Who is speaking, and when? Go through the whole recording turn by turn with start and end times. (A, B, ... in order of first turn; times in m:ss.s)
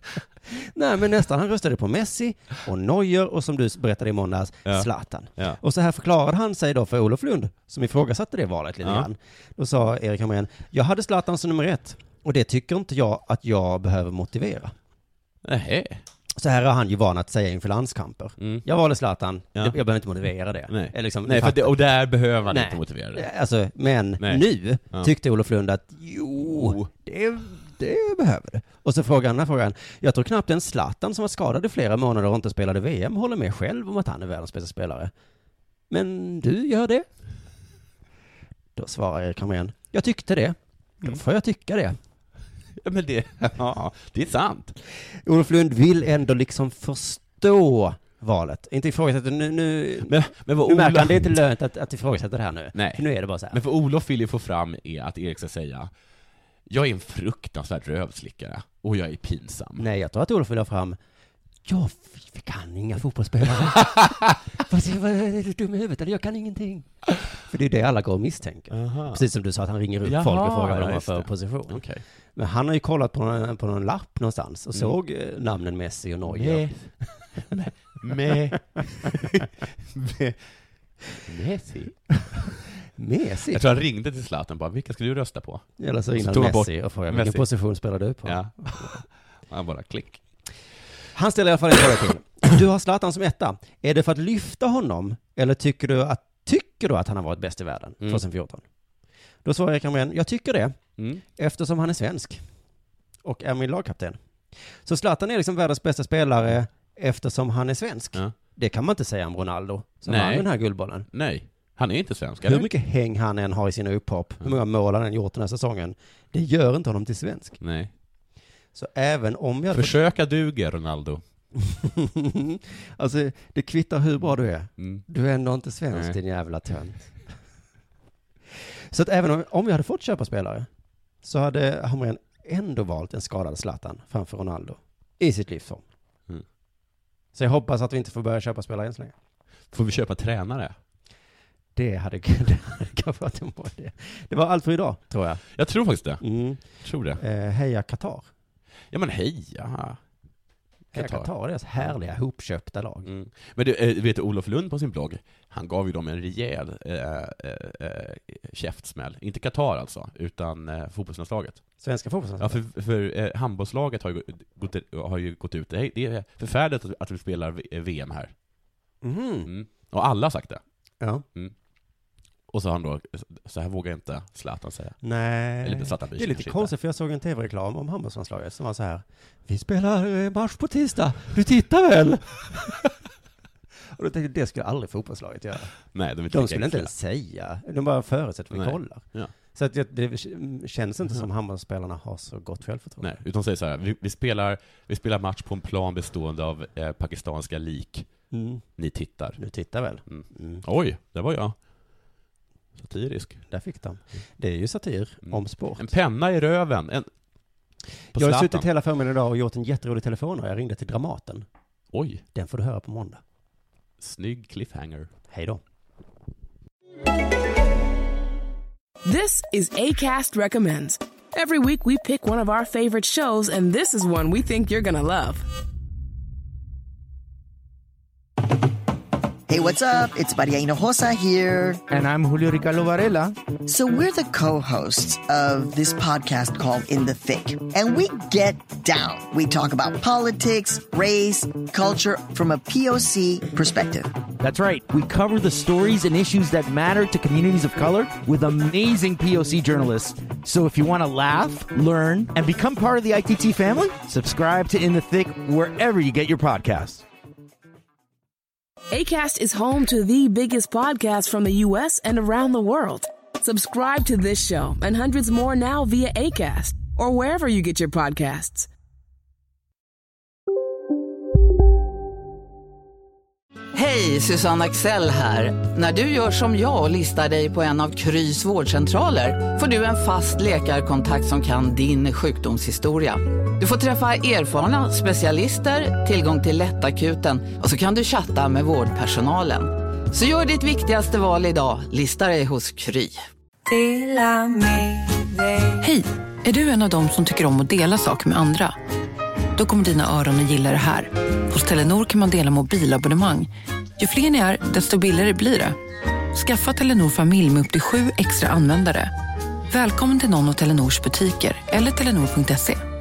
0:00.5-0:14.7 A
0:04.6-0:05.6 B
0:08.8-0:09.1 B
0:15.4-0:16.0 B
0:16.4-0:21.8 A
0:18.4-0:18.6 B
0:20.7-0:23.3 B
0:22.5-0:35.1 A
0:24.2-0:25.1 B
0:26.4-0:26.9 B
0:35.9-0:37.1 A
0:38.8-0:42.0 A
0:42.8-0:44.8 B
0:45.2-0:53.6 A
0:50.0-0:51.4 B
0:52.7-0:55.9 B
0:56.7-0:59.8 B
0:59.8-1:01.0 A
1:01.6-1:11.8 A
1:08.7-1:09.2 B
1:10.0-1:12.0 B
1:12.4-1:16.6 A
1:16.2-1:20.4 B
1:21.2-1:22.5 B
1:23.0-1:23.7 A
1:23.5-1:27.4 B
1:25.8-1:29.0 A
1:28.2-1:30.2 B
1:31.1-1:38.6 A
1:39.4-1:40.8 A
1:41.0-1:41.2 B
1:41.4-1:42.4 A
1:43.2-1:44.2 A
1:44.8-1:51.1 A
1:50.0-1:50.5 B
1:51.1-1:52.7 B
1:52.4-1:57.6 A
1:57.6-1:57.9 B
1:58.7-2:00.0 A
1:59.7-2:01.2 B
2:01.6-2:07.1 A
2:04.8-2:05.0 B
2:05.9-2:06.2 B
2:08.9-2:10.7 A
2:11.2-2:15.8 A
2:17.3-2:19.1 A
2:19.7-2:20.8 B
2:21.8-2:25.4 A
2:25.5-2:27.2 B
2:26.2-2:26.6 A
2:27.1-2:28.3 A
2:28.9-2:30.0 B
2:30.9-2:32.0 B
2:30.9-2:33.1 A
2:33.0-2:41.6 B
2:41.8-2:42.6 A
2:42.4-2:48.3 B
2:49.0-2:49.5 A
2:49.4-2:50.6 B
2:52.5-2:55.0 B
2:55.0-3:02.8 A
2:55.6-2:56.7 B
3:03.9-3:05.7 A
3:05.9-3:06.9 B
3:06.3-3:13.2 A
3:08.5-3:09.3 B
3:13.0-3:18.1 B
3:18.3-3:18.6 A
3:18.8-3:19.4 B
3:19.4-3:20.6 A
3:20.1-3:21.6 B
3:22.8-3:23.4 B
3:23.5-3:25.9 A
3:25.3-3:27.1 B
3:28.1-3:28.7 B
3:28.1-3:31.4 A
3:31.9-3:32.2 B
3:32.3-3:33.2 A
3:34.0-3:35.1 B
3:35.3-3:35.6 A
3:39.0-3:45.4 C
3:49.5-3:51.8 D
3:51.9-3:53.3 E
3:53.7-4:04.1 D
4:04.4-4:17.0 E
4:18.9-4:28.7 C
4:33.7-4:53.2 F
4:55.8-4:58.8 G
4:59.6-5:05.8 G
5:06.3-5:09.1 G
5:09.7-5:12.8 G